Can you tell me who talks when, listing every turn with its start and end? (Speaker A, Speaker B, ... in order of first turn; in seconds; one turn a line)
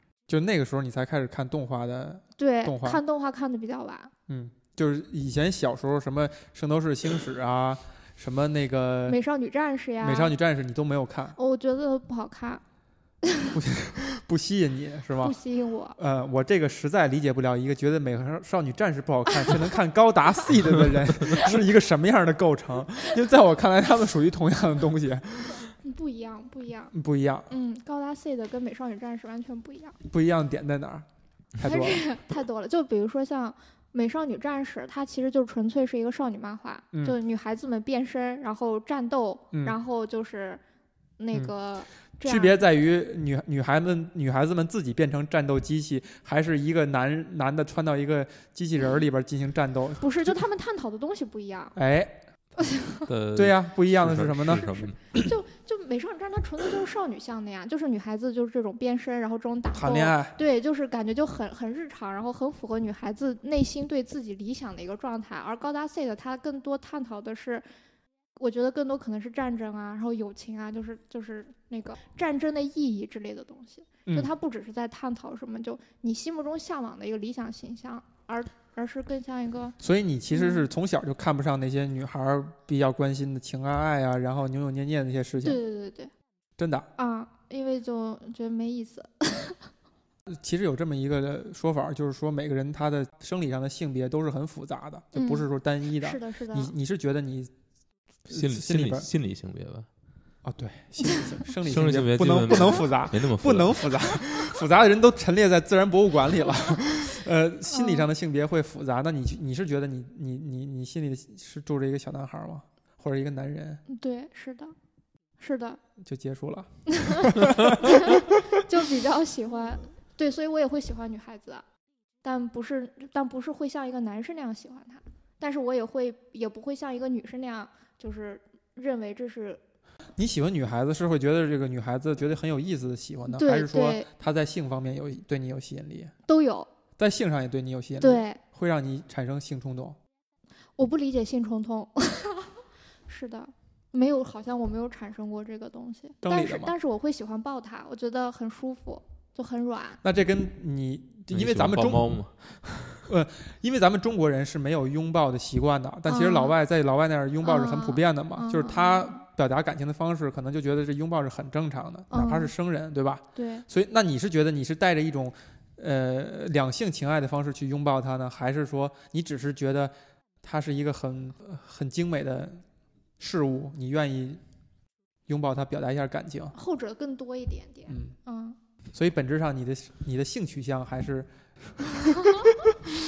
Speaker A: 0.3-3.0
Speaker B: 2.4-4.1
Speaker A: 4.3-9.2
Speaker B: 9.1-10.3
Speaker A: 10.0-11.4
Speaker B: 11.4-12.6
Speaker A: 13.5-15.4
Speaker B: 15.2-16.0
Speaker A: 16.0-25.7
Speaker B: 25.8-26.9
Speaker A: 26.9-27.5
Speaker B: 27.5-30.0
Speaker A: 30.1-31.1
Speaker A: 31.6-32.2
Speaker B: 31.6-40.6
Speaker B: 41.2-42.6
Speaker A: 42.2-50.4
Speaker B: 50.0-51.8
Speaker A: 51.8-52.2
Speaker C: 53.1-55.1
Speaker A: 53.4-54.9
Speaker B: 55.1-67.6
Speaker A: 59.7-60.4
Speaker B: 68.4-79.8
Speaker A: 79.8-85.6
Speaker B: 80.3-80.7
Speaker B: 85.4-86.1
Speaker A: 86.6-86.9
Speaker B: 87.0-89.7
Speaker A: 90.3-97.5
Speaker B: 95.1-96.8
Speaker C: 98.3-99.9
Speaker A: 98.3-99.1
Speaker A: 100.4-113.8
Speaker C: 101.6-104.3
Speaker B: 107.7-108.1
Speaker B: 113.9-114.7
Speaker B: 115.4-115.8
Speaker A: 116.0-118.3
Speaker B: 117.1-121.6
Speaker B: 122.2-129.6
Speaker A: 130.2-136.1
Speaker B: 133.3-134.1
Speaker B: 136.3-136.7
Speaker A: 137.0-140.0
Speaker B: 138.0-138.4
Speaker B: 140.8-150.0
Speaker A: 146.2-146.7
Speaker A: 150.0-152.2
Speaker C: 151.3-153.1
Speaker A: 153.1-172.6
Speaker B: 156.1-156.6
Speaker B: 157.4-159.2
Speaker B: 162.1-162.5
Speaker B: 163.3-163.7
Speaker A: 173.2-174.4
Speaker A: 175.3-176.6
Speaker B: 176.5-178.6
Speaker A: 177.9-178.2
Speaker A: 178.9-181.3